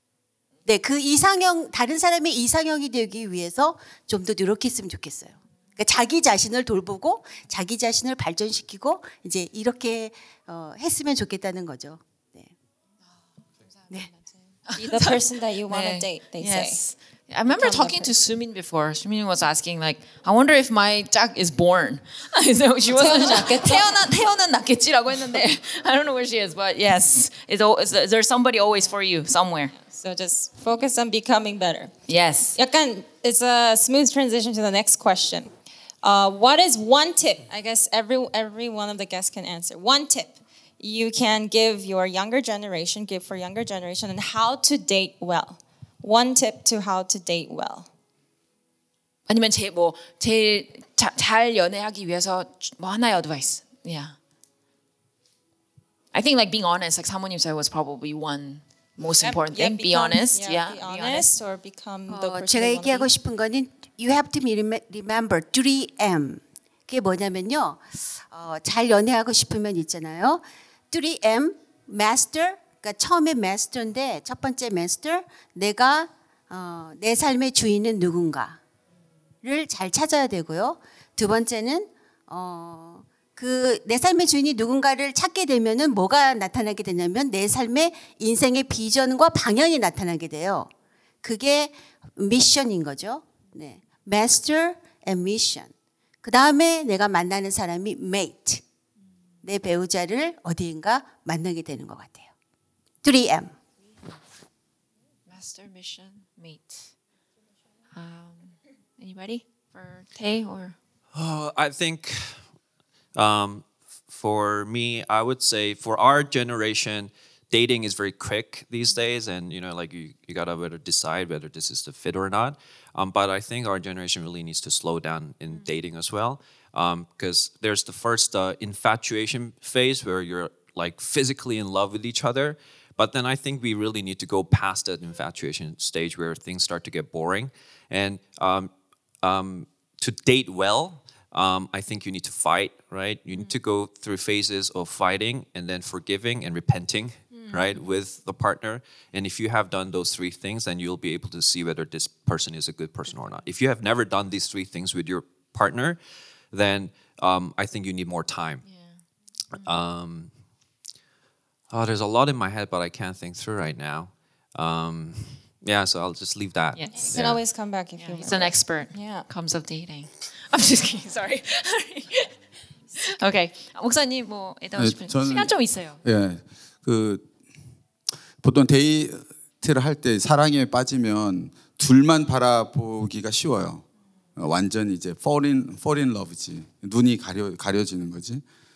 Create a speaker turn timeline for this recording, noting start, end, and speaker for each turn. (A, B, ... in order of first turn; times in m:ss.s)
0:00.6-0:12.5 A
0:14.7-0:29.7 B
0:14.7-0:16.8 C
0:17.5-0:18.1 C
0:22.9-0:24.0 C
0:29.8-0:31.9 C
0:32.1-0:32.6 B
0:32.6-0:35.5 C
0:36.0-0:47.9 C
0:49.3-0:54.1 B
0:56.1-1:01.3 B
0:59.2-1:03.1 C
1:02.1-1:18.6 A
1:19.4-1:30.7 A
1:31.2-1:35.7 A
1:36.2-1:38.6 A
1:39.4-1:42.3 A
1:43.0-1:43.5 A
1:45.3-1:46.9 B
1:47.9-1:50.8 B
1:51.1-1:52.4 D
1:53.2-2:18.7 D
2:19.2-2:36.0 D
2:27.4-2:27.6 C
2:36.5-2:38.6 D
2:38.6-2:38.9 B
2:39.6-2:40.3 D
2:41.7-2:47.4 D
2:46.7-2:47.2 B
2:47.0-2:49.2 C
2:48.0-2:52.3 B
2:53.0-2:56.0 B
2:54.8-2:57.3 E
2:58.4-3:03.8 E
3:04.4-3:08.4 E